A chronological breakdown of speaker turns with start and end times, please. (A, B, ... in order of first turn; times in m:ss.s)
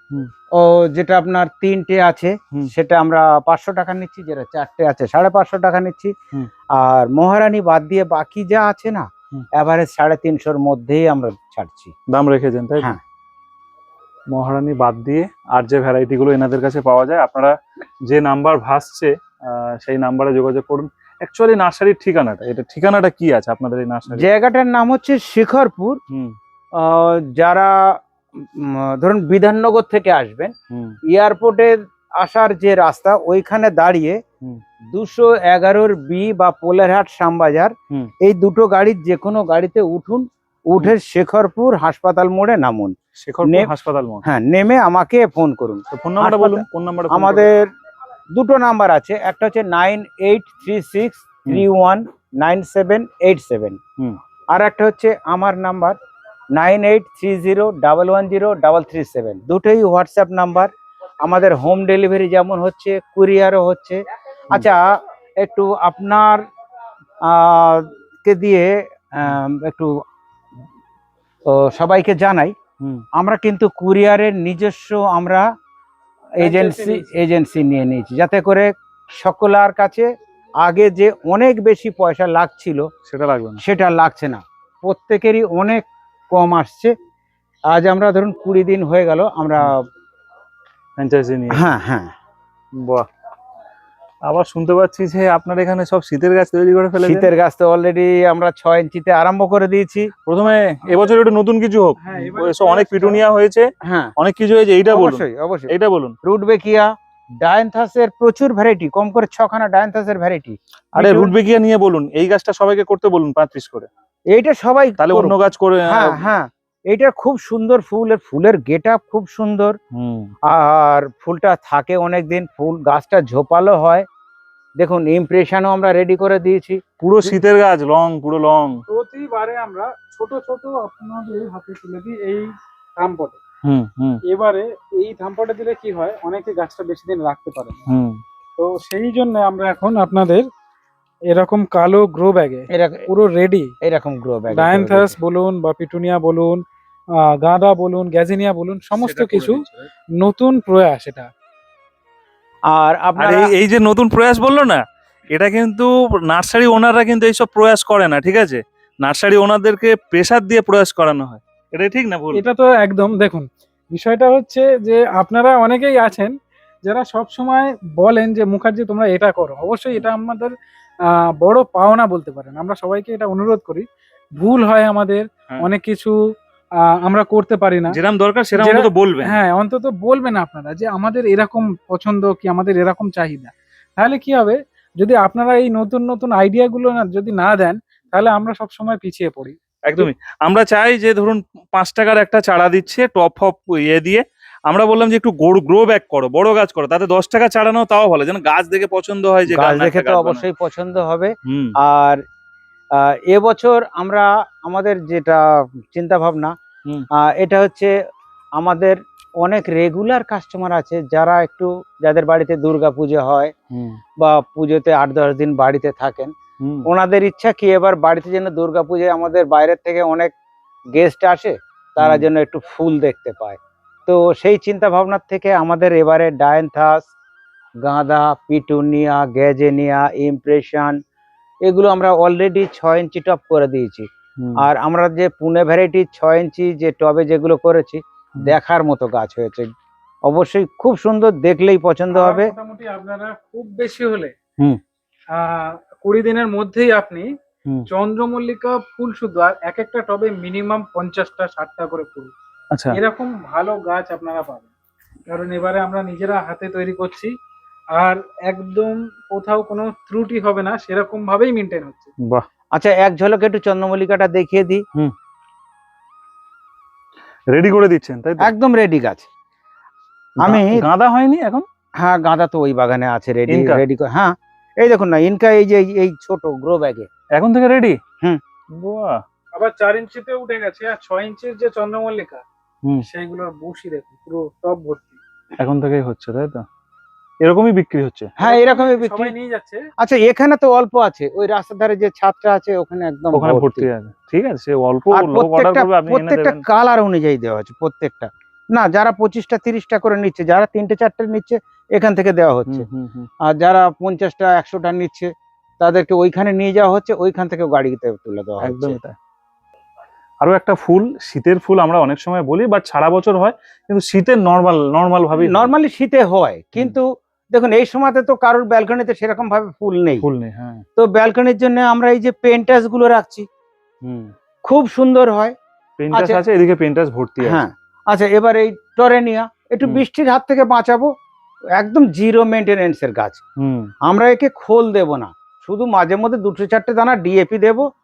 0:00.5-0:06.1 A
0:06.7-0:11.9 A
0:12.1-0:12.9 B
0:14.3-0:17.5 B
0:18.1-0:24.3 B
0:24.1-0:26.0 A
0:26.1-0:26.4 B
0:26.8-0:30.5 A
0:30.7-0:31.0 B
0:31.1-0:34.2 A
0:34.9-0:43.7 A
0:43.2-0:44.2 B
0:44.2-0:47.7 A
0:45.9-0:47.5 B
0:48.3-0:53.8 A
0:54.5-0:56.0 A
0:56.5-1:04.0 A
1:04.5-1:04.9 A
1:05.4-1:06.4 A
1:07.2-1:09.9 A
1:11.5-1:12.5 A
1:13.1-1:15.5 A
1:16.4-1:20.1 A
1:16.4-1:17.1 C
1:20.6-1:22.9 A
1:23.1-1:23.6 B
1:23.6-1:26.9 A
1:27.7-1:29.8 A
1:31.0-1:31.6 B
1:31.5-1:32.1 A
1:32.7-1:33.0 B
1:34.2-1:37.3 B
1:37.0-1:40.1 A
1:40.3-1:46.1 B
1:42.0-1:43.2 C
1:43.8-1:44.1 A
1:44.8-1:45.7 A
1:46.2-1:46.9 A
1:47.4-1:51.3 A
1:50.9-1:53.9 B
1:54.3-1:55.3 A
1:55.0-1:56.2 B
1:55.9-1:59.8 A
1:59.9-2:00.3 B
2:00.5-2:04.0 A
2:04.8-2:07.4 A
2:07.0-2:08.8 B
2:08.9-2:13.4 C
2:13.6-2:14.2 B
2:14.3-2:17.9 C
2:17.9-2:18.2 B
2:18.6-2:20.4 C
2:21.3-2:23.7 C
2:22.7-2:23.1 A
2:23.8-2:25.2 A
2:24.5-2:26.6 C
2:27.2-2:29.6 C
2:28.9-2:29.9 B
2:30.2-2:31.3 C
2:32.7-2:33.5 A
2:33.2-2:42.4 B
2:42.3-2:50.5 C
2:51.0-2:53.8 C
2:54.4-2:56.1 C
2:56.8-2:58.0 C
2:57.9-2:59.4 B
2:58.6-3:10.1 C
3:09.8-3:20.4 B
3:19.5-3:22.2 A
3:21.5-3:21.7 B
3:22.9-3:26.5 A
3:27.2-3:27.9 A
3:28.6-3:33.5 A
3:33.7-3:34.0 B
3:34.2-3:40.3 A
3:36.6-3:36.9 B
3:40.9-3:47.1 A
3:42.0-3:42.3 B
3:47.8-3:51.0 A
3:51.6-3:54.1 A
3:54.4-3:54.6 B
3:54.6-3:59.7 A
4:00.3-4:02.5 A
4:02.1-4:04.3 C
4:05.3-4:07.3 C
4:07.9-4:12.3 C
4:12.7-4:13.0 B
4:12.9-4:14.7 C
4:15.3-4:17.3 C
4:17.9-4:22.1 C
4:22.7-4:24.8 A
4:27.5-4:28.5 B
4:28.4-4:29.3 A
4:30.4-4:30.8 A
4:30.4-4:31.6 B
4:32.0-4:37.1 A
4:33.5-4:33.8 B
4:37.3-4:38.0 B
4:38.7-4:39.2 B
4:39.5-4:42.4 C
4:43.0-4:45.2 C
4:45.6-4:46.6 B
4:47.4-4:48.3 B
4:48.4-4:49.3 A
4:48.4-4:49.8 C
4:50.0-4:53.9 A
4:53.3-4:56.6 B
4:55.1-5:02.8 A
5:02.7-5:03.3 B
5:03.4-5:09.0 A
5:08.6-5:09.2 B
5:10.4-5:15.7 B
5:15.3-5:20.2 A
5:20.2-5:20.8 B
5:21.0-5:23.4 A
5:24.0-5:24.3 B
5:24.6-5:25.5 A
5:26.0-5:27.6 B
5:26.1-5:26.4 A
5:27.4-5:31.1 A
5:31.8-5:33.4 A
5:33.6-5:33.9 B
5:34.0-5:37.8 A